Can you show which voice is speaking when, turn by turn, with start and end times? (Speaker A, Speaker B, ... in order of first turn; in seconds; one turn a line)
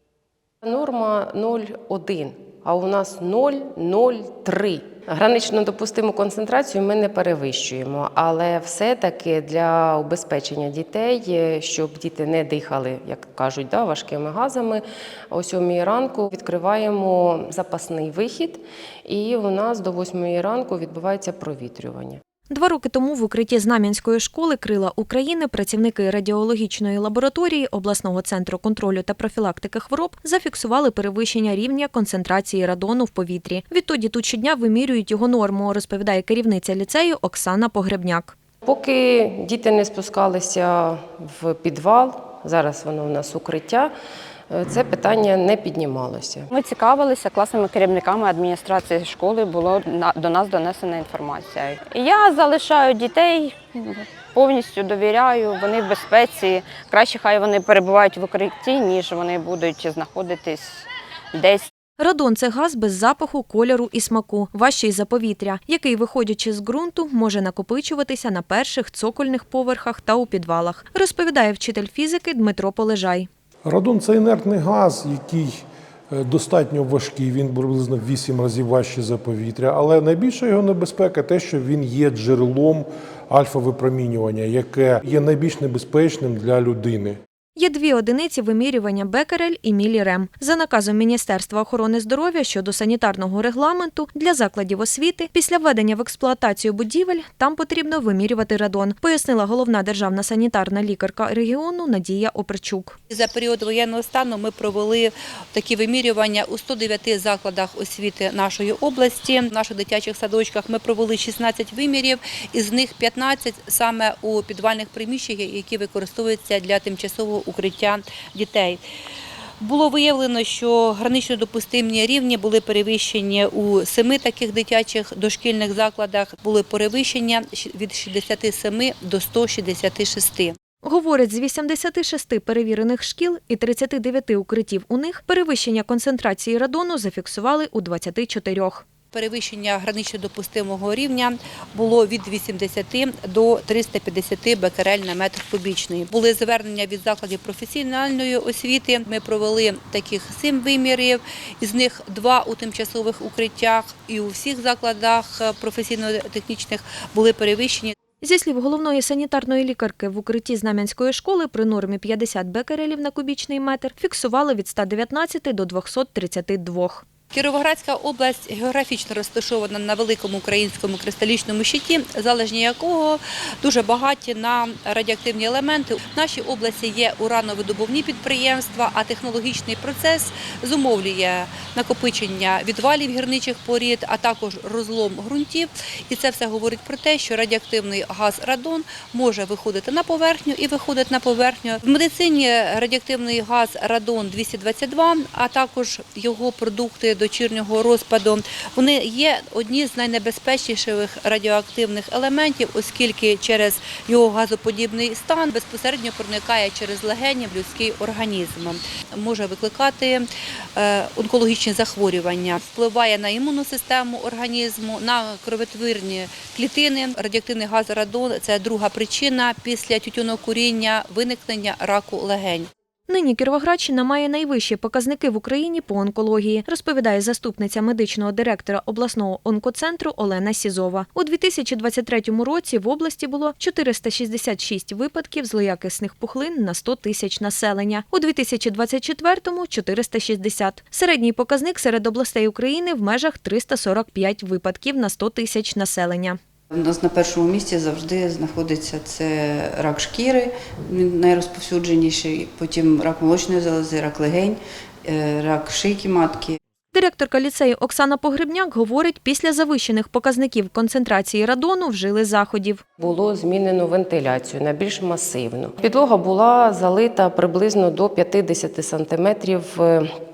Speaker A: 0.6-22.2
Speaker B: 22.5-38.3
Speaker A: 38.6-43.9
Speaker A: 44.5-46.5
Speaker C: 46.5-61.7
Speaker B: 62.0-73.3
Speaker D: 73.7-87.2
Speaker B: 87.6-103.0
Speaker E: 103.1-118.8
Speaker E: 119.6-130.6
Speaker B: 130.8-138.8
Speaker E: 139.1-157.9
Speaker B: 158.2-167.1
Speaker E: 167.3-222.7
Speaker B: 223.1-246.4
Speaker F: 246.7-256.6
Speaker B: 256.9-262.8
Speaker A: 263.0-270.1